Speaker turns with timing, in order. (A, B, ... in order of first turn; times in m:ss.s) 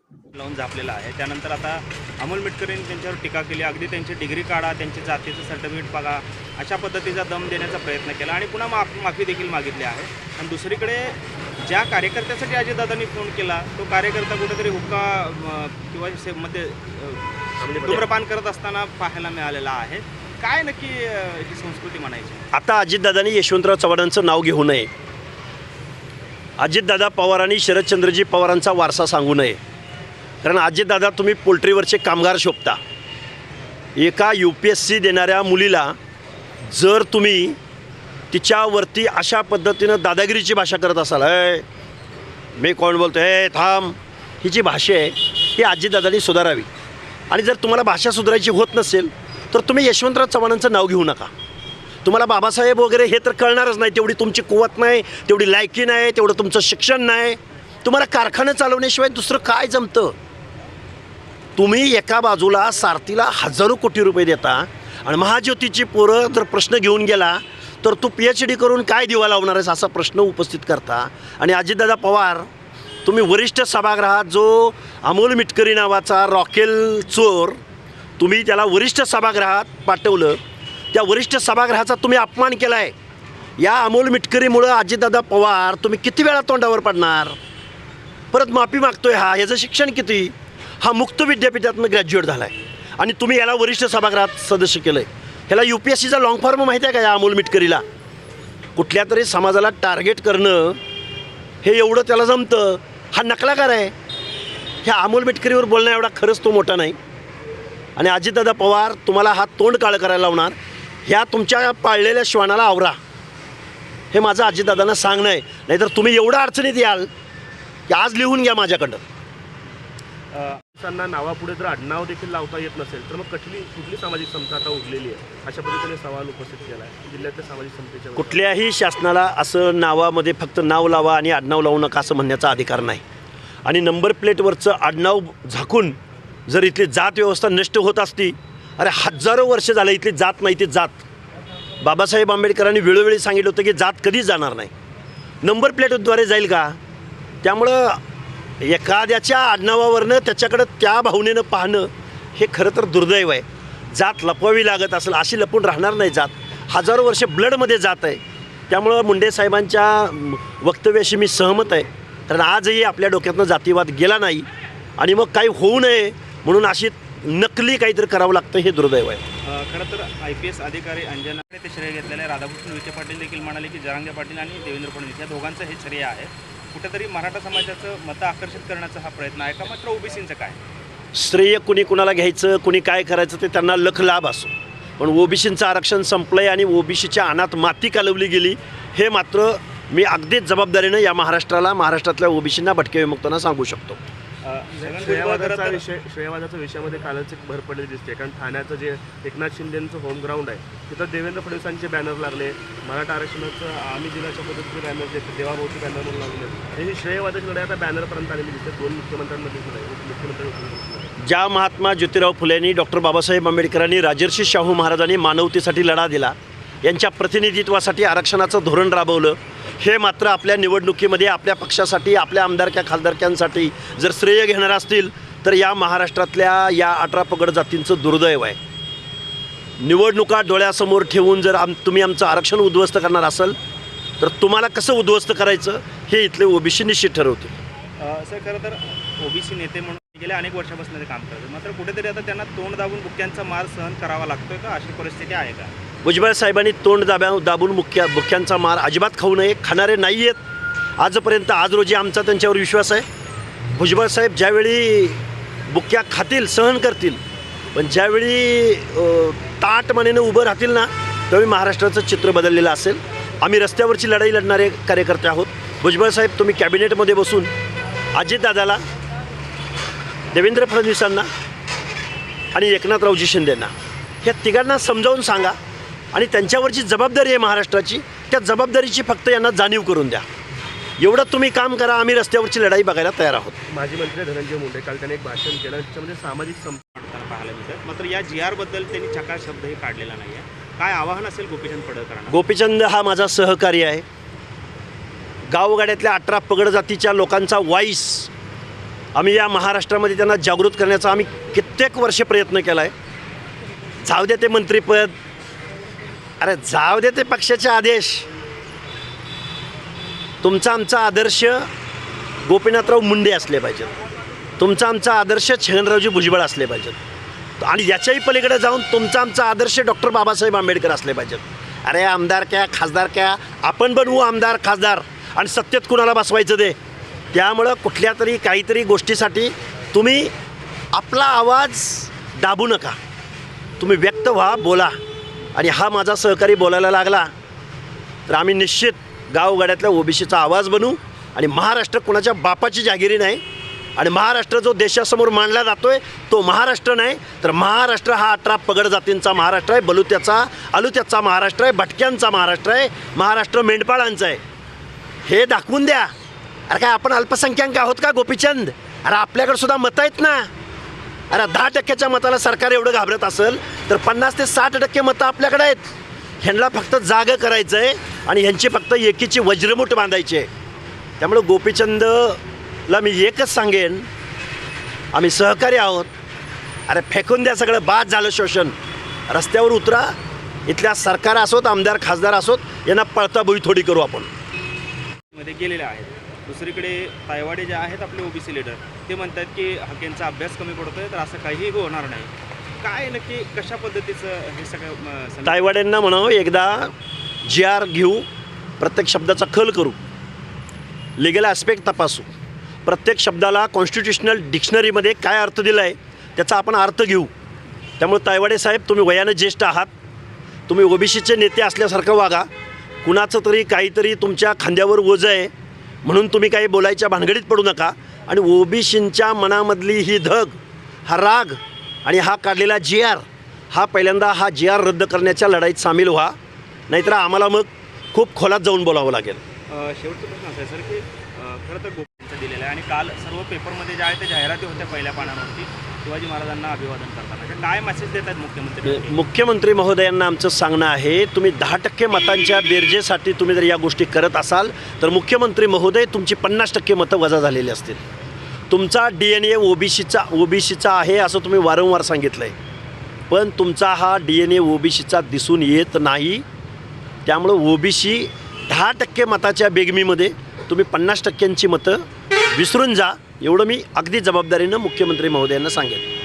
0:00.3-0:22.4 A
0:17.6-0:18.1 B
0:22.5-0:24.9 C
0:26.6-0:29.6 C
0:30.4-0:32.8 C
0:34.0-0:36.0 C
0:36.7-0:37.6 C
0:38.3-0:41.6 C
0:42.6-0:46.7 C
0:47.3-0:51.3 C
0:52.0-1:00.1 C
1:01.6-1:12.5 C
1:13.0-1:17.6 C
1:18.2-1:20.4 C
1:20.9-1:22.9 C
1:23.6-1:27.4 C
1:28.3-1:37.8 C
1:38.8-1:40.8 C
1:41.6-1:43.9 C
1:44.8-1:47.0 C
1:48.0-1:53.0 C
1:54.1-1:57.1 C
1:57.9-1:59.0 C
2:00.3-2:00.6 A
2:00.7-2:08.4 B
2:08.2-2:13.0 C
2:13.6-2:21.0 C
2:21.8-2:24.7 C
2:25.4-2:26.8 C
2:27.4-2:28.0 C
2:28.6-2:44.4 C
2:45.0-2:49.2 C
2:49.4-3:00.6 A
3:01.1-3:14.0 C
3:14.4-3:15.8 A
3:14.8-3:31.1 B
3:31.2-3:48.6 C
3:49.8-3:53.6 C
3:54.2-3:57.5 C
3:58.0-4:05.7 A
4:06.0-4:10.4 C
4:11.0-4:13.0 C
4:13.7-4:17.2 C
4:17.7-4:27.5 C
4:28.1-4:28.8 C
4:30.3-4:31.3 C
4:32.5-4:35.6 C
4:36.1-4:40.2 C
4:41.0-4:43.5 C
4:43.7-4:46.8 B
4:46.9-4:52.4 A
4:52.3-4:54.0 C
4:55.5-4:58.3 C
4:59.1-5:02.9 C
5:04.0-5:05.1 C
5:06.4-5:08.3 C
5:10.4-5:11.7 C
5:12.4-5:13.9 C
5:14.6-5:17.0 C
5:17.6-5:26.8 C
5:27.3-5:30.3 C
5:30.9-5:33.0 C
5:33.8-5:35.0 C
5:35.5-5:37.3 C
5:38.3-5:43.4 C
5:44.0-5:54.4 C
5:55.2-5:56.1 C
5:56.7-6:00.5 C
6:01.3-6:05.9 C
6:06.4-6:10.5 C
6:11.2-6:14.0 C
6:15.1-6:16.1 C
6:16.9-6:18.7 C
6:19.3-6:20.2 C
6:20.7-6:24.3 C
6:25.3-6:35.8 A
6:35.4-6:36.9 C
6:37.4-6:38.2 C
6:38.8-6:40.0 C
6:41.2-6:42.3 C
6:42.8-6:47.3 C
6:48.0-6:49.9 C
6:50.7-6:52.5 C
6:53.0-6:55.5 C
6:56.0-7:06.3 C
7:06.9-7:09.4 C
7:09.7-7:19.2 A
7:18.8-7:28.0 C
7:28.7-7:32.5 C
7:33.3-7:36.4 C
7:37.2-7:46.0 C